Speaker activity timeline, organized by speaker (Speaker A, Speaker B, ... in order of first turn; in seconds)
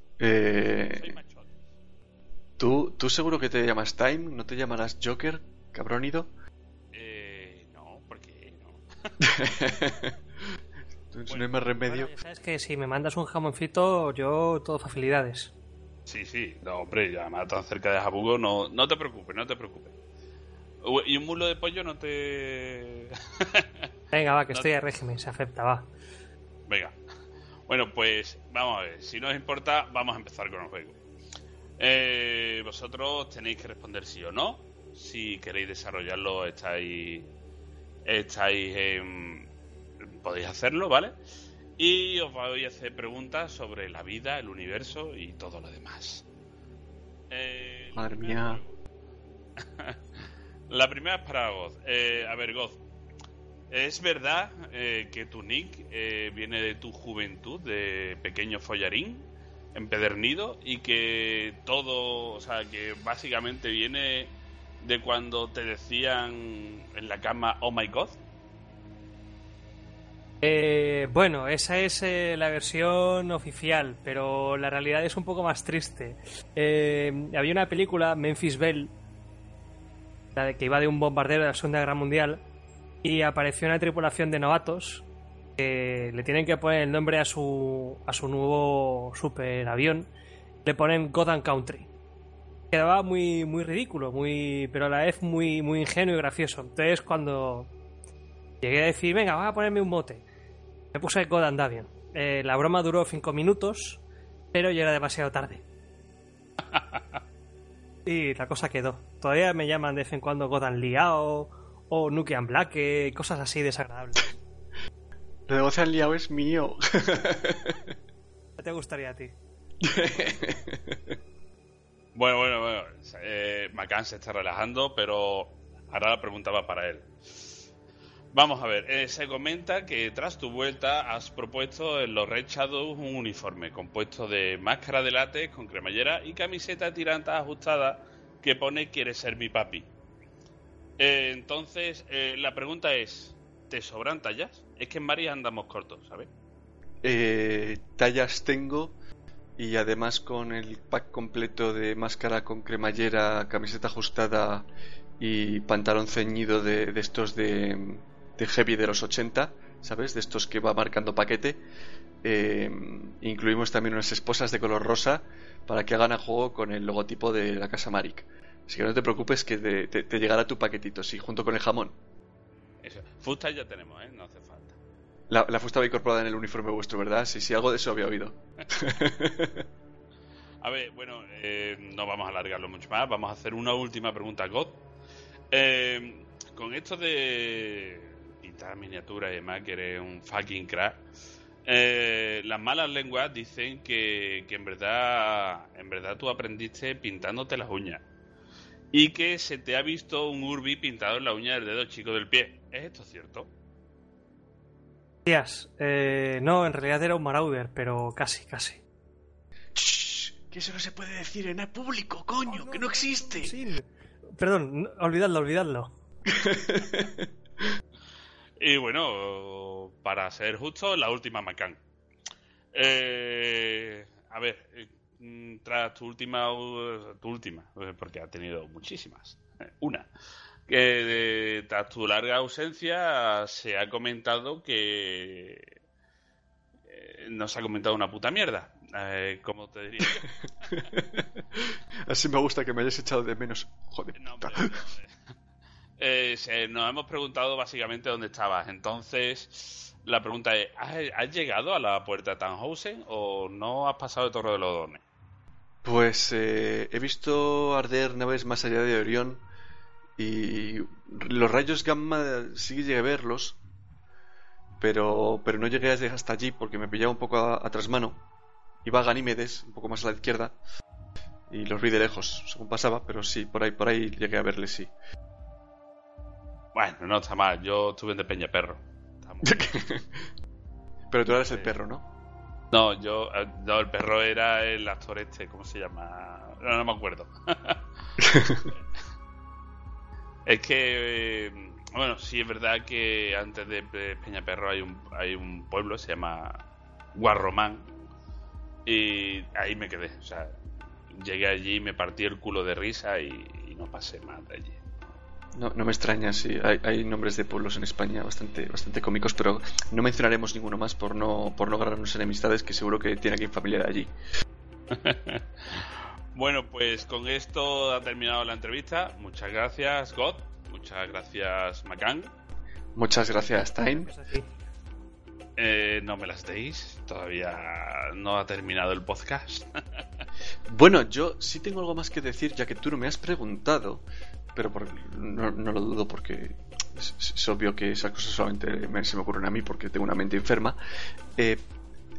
Speaker A: 0.2-1.1, 2.6-6.3, 9.2-10.2, 11.1-12.1, 47.9-48.6, 115.5-117.9, 119.8-121.1, 147.0-148.9, 149.6-154.7, 155.2-161.6, 162.2-171.9, 175.3-179.7, 209.7-213.5, 216.3-217.3, 240.8-244.8, 255.8-259.4, 260.2-263.6, 264.8-268.2, 268.8-270.6, 271.5-274.9, 279.4-280.1, 281.1-282.1, 288.2-288.7, 305.5-314.1, 322.9-324.1, 330.7-334.0, 334.5-340.8, 341.4-341.6
Speaker B: 0.9-1.5, 6.9-9.1, 16.1-19.9, 20.8-23.9, 26.7-26.9, 27.7-30.9, 31.8-37.3, 38.0-39.5, 40.0-41.1, 41.8-46.2, 47.3-48.8, 49.6-52.8, 53.7-68.2, 106.7-107.0, 122.1-127.6, 128.3-139.9, 141.0-146.3, 172.8-174.8, 180.6-184.8, 185.5-191.0, 191.6-198.0, 198.9-203.5, 218.6-221.8, 222.7-230.1, 230.7-235.7, 236.9-240.8, 244.2-245.1, 246.0-255.0, 276.7-279.7, 282.7-288.4, 290.4-296.6, 297.1-297.9, 298.9-300.5, 301.1-304.9, 314.9-322.3, 325.6-330.0
Speaker C: 11.8-15.5, 24.1-25.9, 70.4-78.9, 80.3-82.4, 83.0-85.0, 85.6-90.1, 90.6-91.9, 92.7-97.7, 98.6-100.2, 100.9-104.0, 104.5-105.6, 108.0-114.3, 118.6-119.3, 205.2-208.8, 212.4-215.9, 323.7-324.5